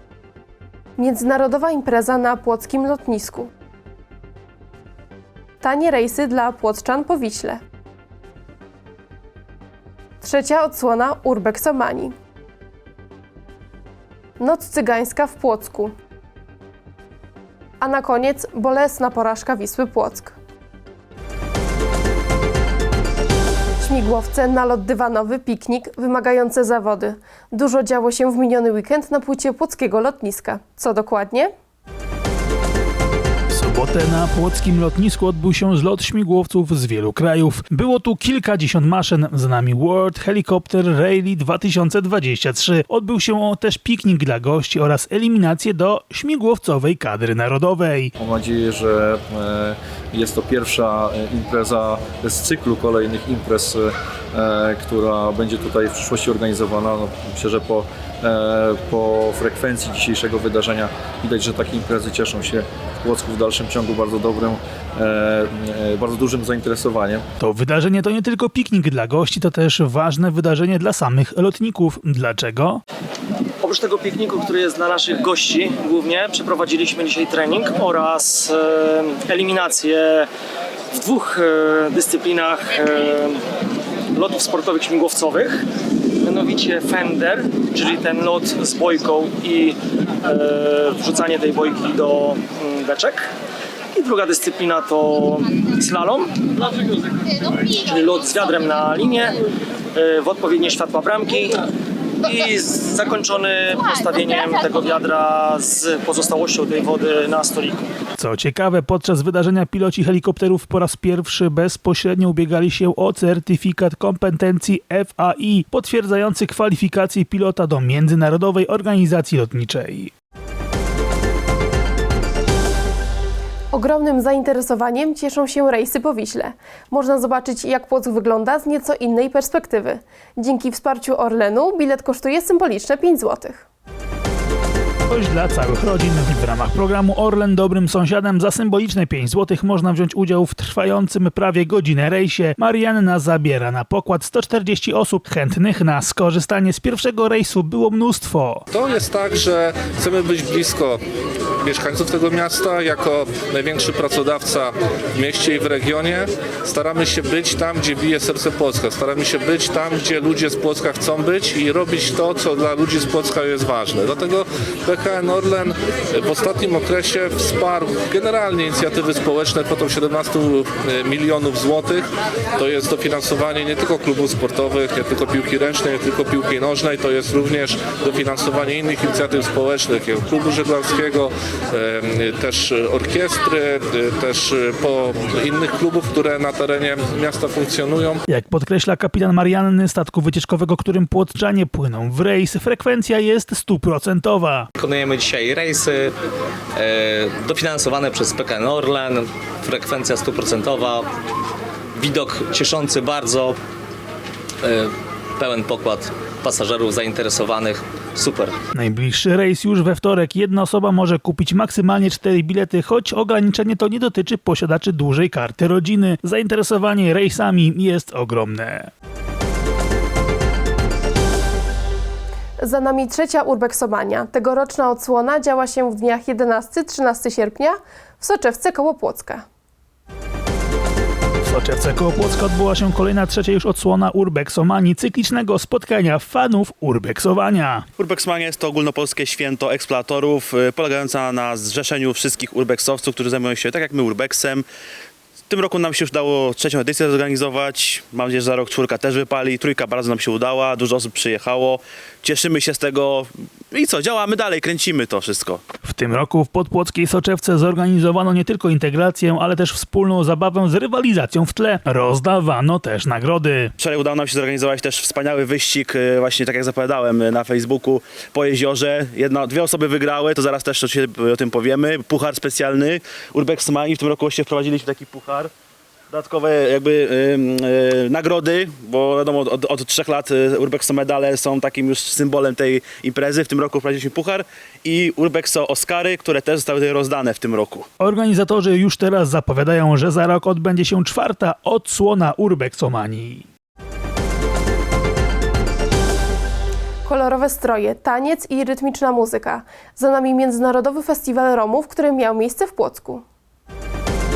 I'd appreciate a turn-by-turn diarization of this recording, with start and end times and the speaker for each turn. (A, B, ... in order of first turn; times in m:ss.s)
0:01.0-0:03.5 A
0:05.6-0:07.6 A
0:10.2-0:12.2 A
0:14.4-0:15.9 A
0:17.8-0:20.4 A
0:23.8-0:31.5 A
0:33.5-0:48.1 B
0:48.2-1:07.2 C
1:07.4-1:12.8 B
1:13.6-1:20.3 D
1:20.9-1:23.4 D
1:24.2-1:25.6 D
1:26.2-1:33.3 D
1:33.9-1:36.3 D
1:37.7-1:39.4 D
1:40.0-1:41.6 D
1:42.2-1:47.8 D
1:48.2-2:00.1 B
2:03.7-2:13.6 A
2:15.1-2:28.6 B
2:28.7-2:31.0 E
2:31.6-3:08.2 E
3:08.3-3:14.7 B
3:14.8-3:16.2 F
3:16.8-3:21.1 F
3:22.0-3:23.6 F
3:24.6-3:28.6 F
3:28.8-3:38.9 B
3:42.6-3:49.4 A
3:51.5-3:57.8 B
3:58.0-4:04.6 G
4:05.5-4:15.6 G
4:15.9-4:23.7 B
4:23.8-4:35.5 G
4:36.1-4:47.9 G
4:48.0-4:53.4 B
4:57.0-5:03.2 A